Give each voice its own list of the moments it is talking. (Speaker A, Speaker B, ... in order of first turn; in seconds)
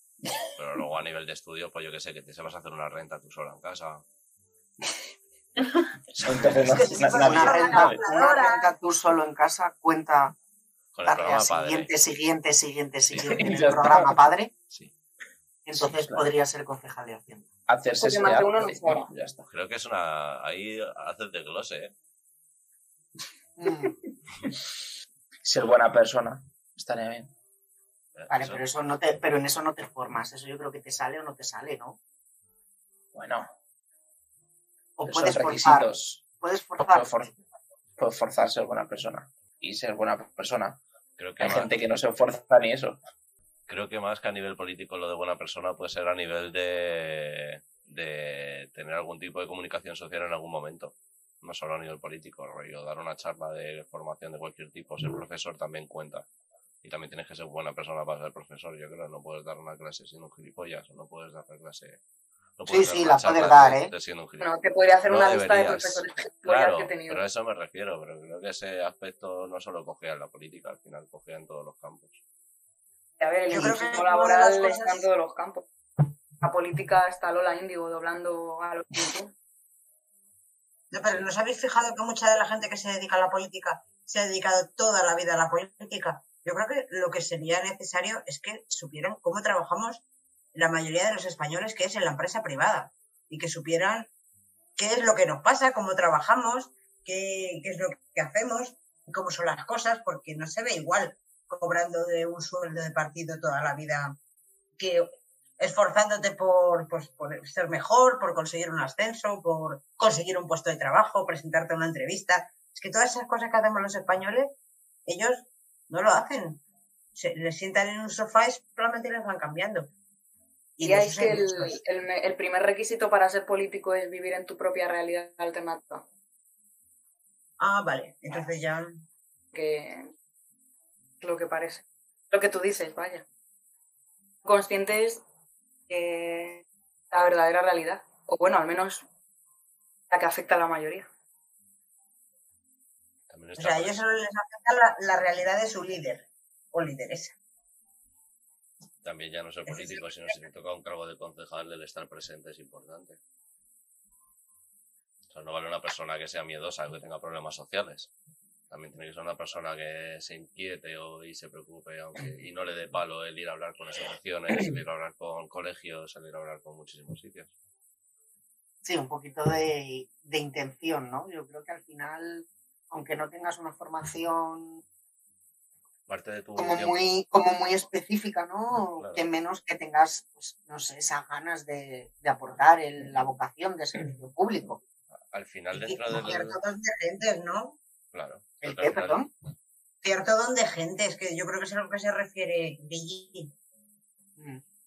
Speaker A: 0.6-4.0, 10.9-11.9, 13.1-13.4, 19.5-21.9, 28.1-28.6, 41.2-41.7, 43.7-56.2, 56.8-62.0, 62.6-64.5, 65.0-72.2, 143.3-144.1, 149.0-153.2, 155.3-158.1, 158.7-167.5, 176.1-177.0, 179.0-179.2, 185.3-186.6, 188.1-189.2
Speaker B: 6.1-8.0, 13.2-14.2, 15.7-16.3, 17.7-19.4, 25.4-27.3, 33.1-33.5, 35.1-36.2, 36.8-37.3, 38.0-40.8, 41.4-43.0
Speaker C: 6.4-8.7, 73.5-75.1, 80.9-90.0, 90.5-94.1, 94.8-104.2, 104.8-114.5, 115.1-116.6, 117.2-119.9, 120.8-121.8, 127.6-129.0, 143.6-147.3, 149.7-150.1, 185.7-187.8, 190.0-193.5
Speaker D: 7.1-10.3, 11.1-14.5, 15.7-17.5, 23.6-23.9, 28.3-32.0, 35.0-35.9, 36.4-37.3, 62.7-63.9, 168.8-174.8, 176.6-184.8, 188.6-189.3, 194.4-194.6
Speaker E: 18.0-19.1, 64.4-67.2, 73.2-75.7, 76.4-79.3, 120.8-126.0, 129.5-130.1, 131.2-133.2, 134.4-135.2, 135.9-139.1, 140.1-141.1